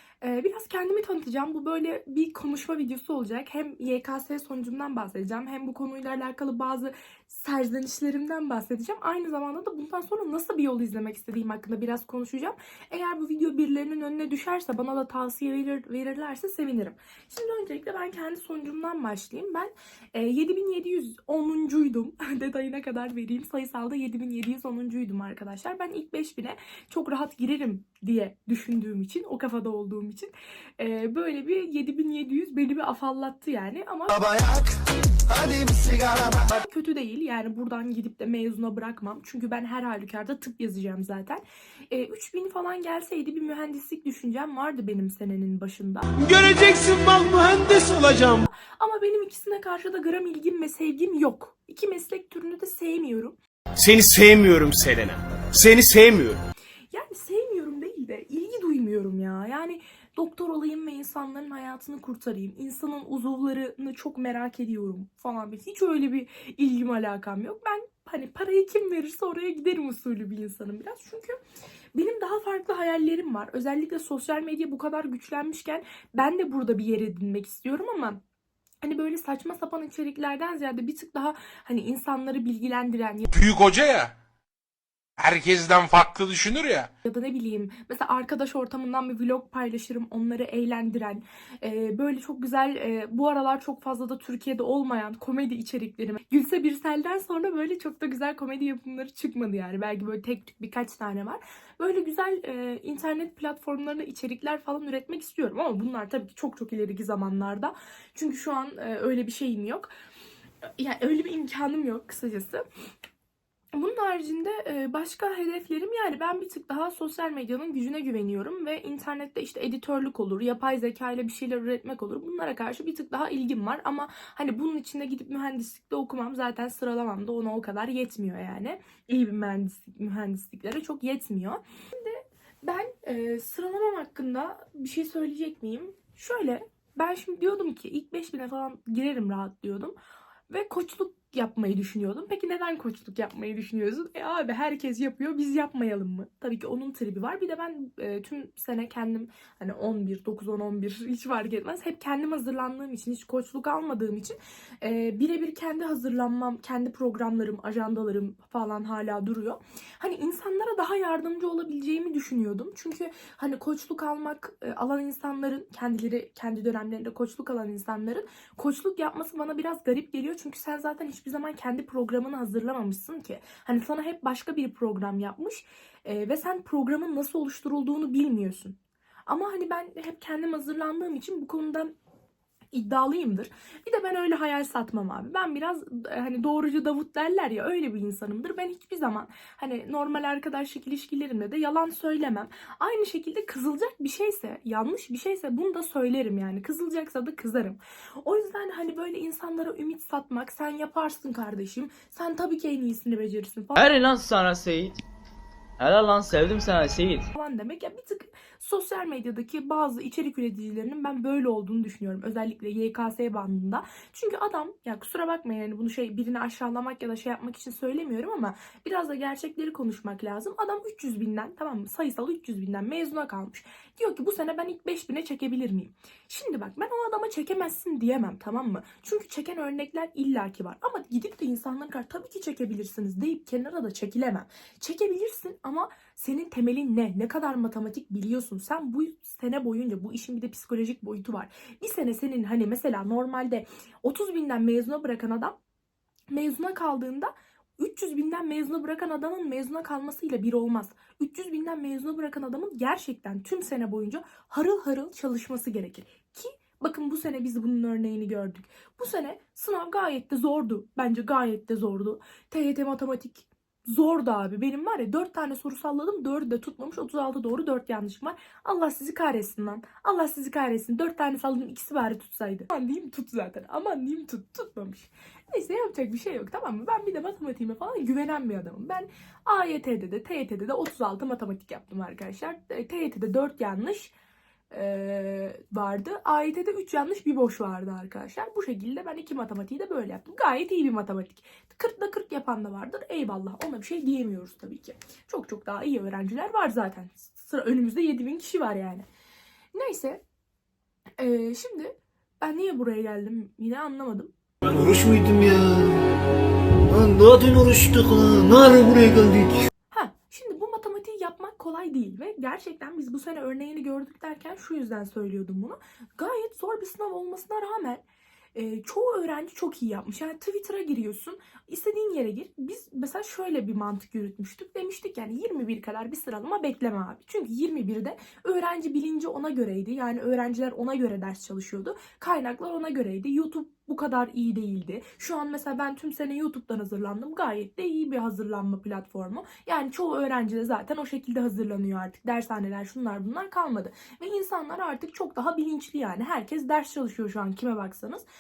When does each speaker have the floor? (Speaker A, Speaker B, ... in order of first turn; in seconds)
Speaker A: 0.2-34.2, 36.3-46.1, 48.2-53.4, 56.9-71.4, 72.0-78.2, 78.8-83.3, 87.1-109.9, 110.8-112.6, 113.7-139.9, 140.5-181.9, 182.7-203.9, 207.3-245.6, 246.3-284.1, 284.7-299.1, 299.7-300.2, 301.2-304.3, 309.9-318.0, 318.6-348.2
Speaker B: 34.1-36.4
Speaker C: 46.2-48.4, 53.8-56.4
Speaker D: 53.9-56.2, 304.7-306.1, 306.9-309.6
Speaker E: 83.3-84.1, 85.2-86.9
Speaker F: 203.8-205.0, 205.8-207.3